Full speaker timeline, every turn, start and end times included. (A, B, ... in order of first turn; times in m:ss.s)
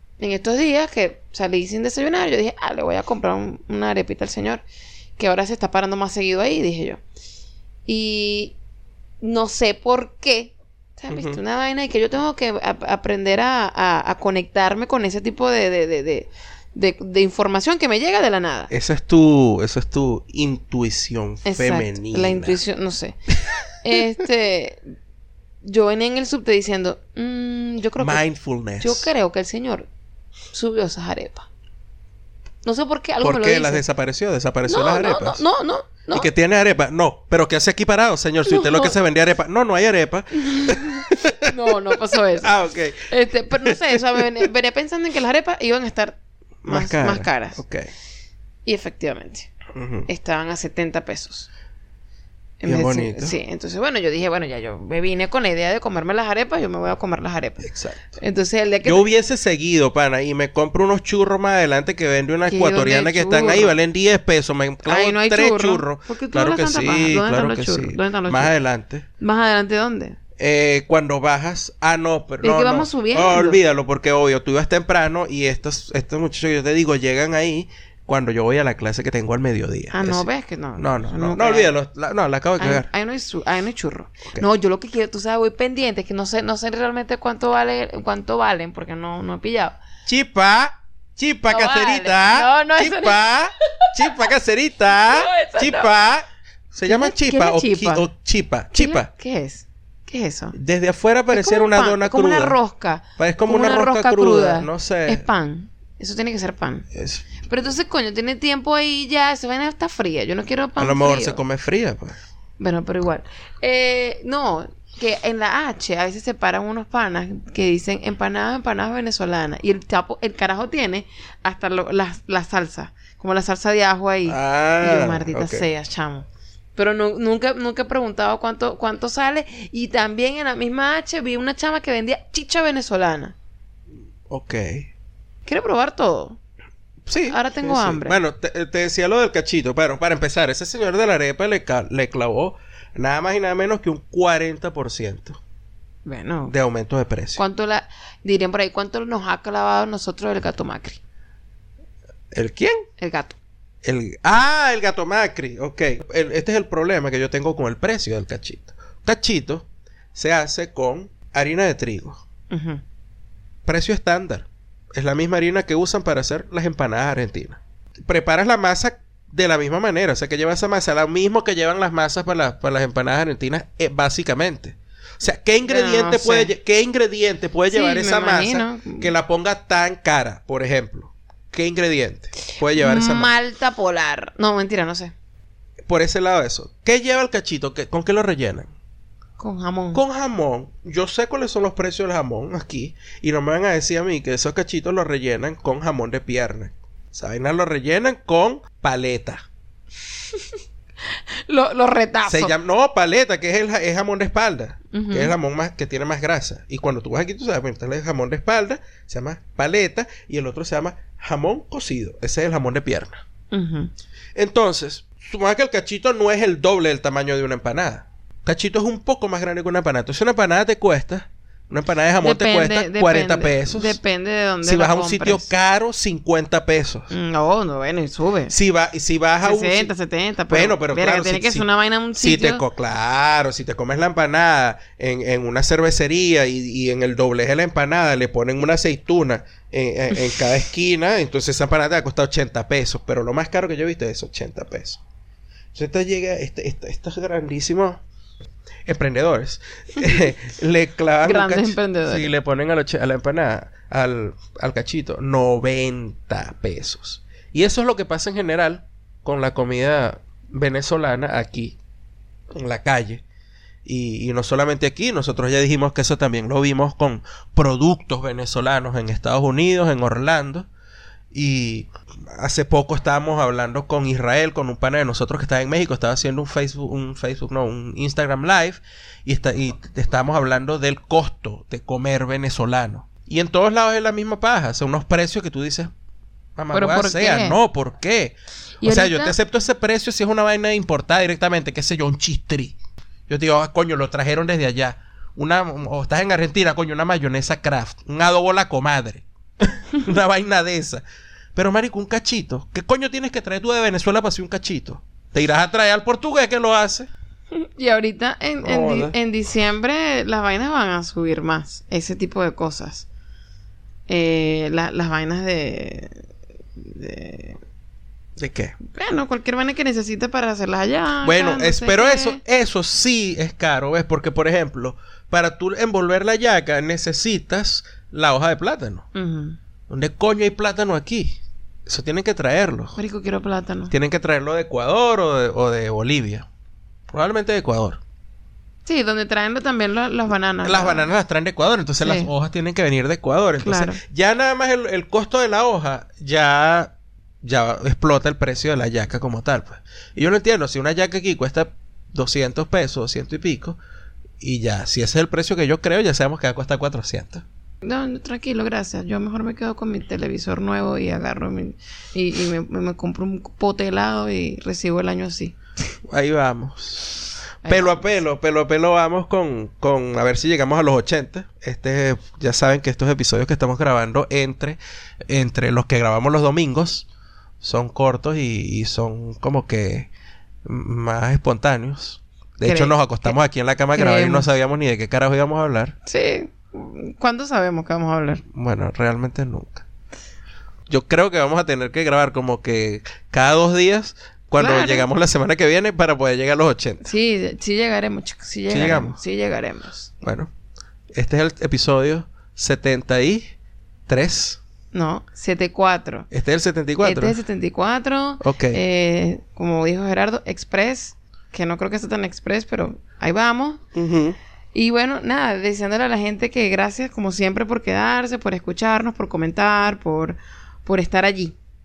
0:00.2-0:04.6 A
0:05.2-0:07.0 A
0:07.8-0:08.6 A
0:09.2-0:18.7 A
0:11.1-0:11.4 B
0:18.7-0:22.6 B
0:21.4-0:23.2 A
0:23.8-0:24.8 A
0:25.6-0:28.2 A
0:28.0-0:29.1 B
0:28.8-0:29.9 A
0:30.5-0:31.5 A
0:32.6-0:33.8 A
0:33.2-0:35.4 B
0:34.6-0:36.3 A
0:36.1-0:44.4 B
0:38.4-0:38.9 A
0:40.4-0:42.5 A
0:43.0-0:47.6 A
0:46.6-0:47.9 B
0:48.6-0:49.5 A
0:49.7-0:50.1 B
0:50.1-0:51.5 A
0:52.6-0:59.0 A
0:52.6-0:53.4 B
0:57.6-0:58.2 B
0:58.8-1:09.0 B
1:02.5-1:03.8 A
1:04.8-1:08.5 A
1:09.2-1:10.2 A
1:10.4-1:20.2 B
1:12.4-1:13.6 A
1:19.9-1:21.7 A
1:20.8-1:22.9 B
1:22.6-1:29.8 A
1:30.0-1:39.1 B
1:31.5-1:34.2 A
1:34.9-1:35.9 A
1:36.8-1:38.1 A
1:38.7-1:40.6 A
1:40.5-1:42.6 B
1:41.3-1:46.9 A
1:43.2-1:45.2 B
1:46.9-1:47.3 B
1:47.4-1:51.4 A
1:50.8-1:52.2 B
1:52.6-2:13.3 A
2:04.3-2:05.7 B
2:14.3-2:14.9 B
2:15.4-2:16.4 A
2:17.0-2:25.4 B
2:17.3-2:18.2 A
2:26.0-2:26.5 A
2:26.5-2:27.4 B
2:27.3-2:31.0 A
2:32.3-2:32.8 B
2:33.0-2:33.4 A
2:33.8-2:42.2 B
2:42.5-2:42.8 A
2:43.6-3:03.3 B
2:55.6-2:56.5 A
2:57.7-2:59.1 A
3:02.7-3:05.1 A
3:05.9-3:08.7 B
3:09.4-3:10.0 A
3:09.9-3:19.4 B
3:21.5-3:22.5 A
3:22.3-3:33.2 B
3:24.9-3:25.3 A
3:33.5-3:33.9 A
3:34.3-3:44.0 B
3:42.2-3:45.5 A
3:44.6-3:47.1 B
3:47.1-3:48.5 A
3:48.5-3:49.9 B
3:49.4-3:52.6 A
3:50.5-4:05.0 B
4:05.7-4:08.0 B
4:08.9-4:21.8 B
4:11.2-4:12.3 A
4:22.5-4:23.2 B
4:23.8-4:30.7 B
4:31.3-4:45.9 B
4:46.6-4:52.7 B
4:46.7-4:47.6 A
4:48.8-4:49.3 A
4:53.3-5:01.0 B
5:01.5-5:07.1 B
5:07.5-5:13.0 A
5:08.6-5:09.1 B
5:14.1-5:16.2 A
5:16.8-5:17.6 A
5:18.4-5:18.7 B
5:18.9-5:22.4 A
5:21.2-5:29.1 B
5:29.1-5:29.6 A
5:29.9-5:32.9 B
5:33.0-5:33.9 A
5:33.9-5:36.5 B
5:37.1-5:38.0 B
5:38.8-5:41.1 A
5:40.6-5:53.8 B
5:42.0-5:42.3 A
5:43.6-5:44.0 A
5:54.4-5:57.4 B
5:57.8-6:05.5 A
6:06.1-6:17.0 B
6:07.6-6:08.2 A
6:17.6-6:20.1 B
6:20.6-6:26.0 B
6:22.6-6:23.3 A
6:24.0-6:24.5 A
6:26.0-6:28.4 A
6:28.5-6:29.8 B
6:30.9-6:37.1 B
6:34.6-6:35.1 A
6:37.0-6:40.1 A
6:38.7-6:39.2 B
6:40.2-6:40.5 B
6:41.1-6:43.5 B
6:44.1-6:44.6 B
6:44.9-6:46.3 A
6:46.3-6:47.4 B
6:47.0-6:53.8 A
6:48.4-6:48.8 B
6:53.9-6:54.4 B
6:54.7-7:01.6 A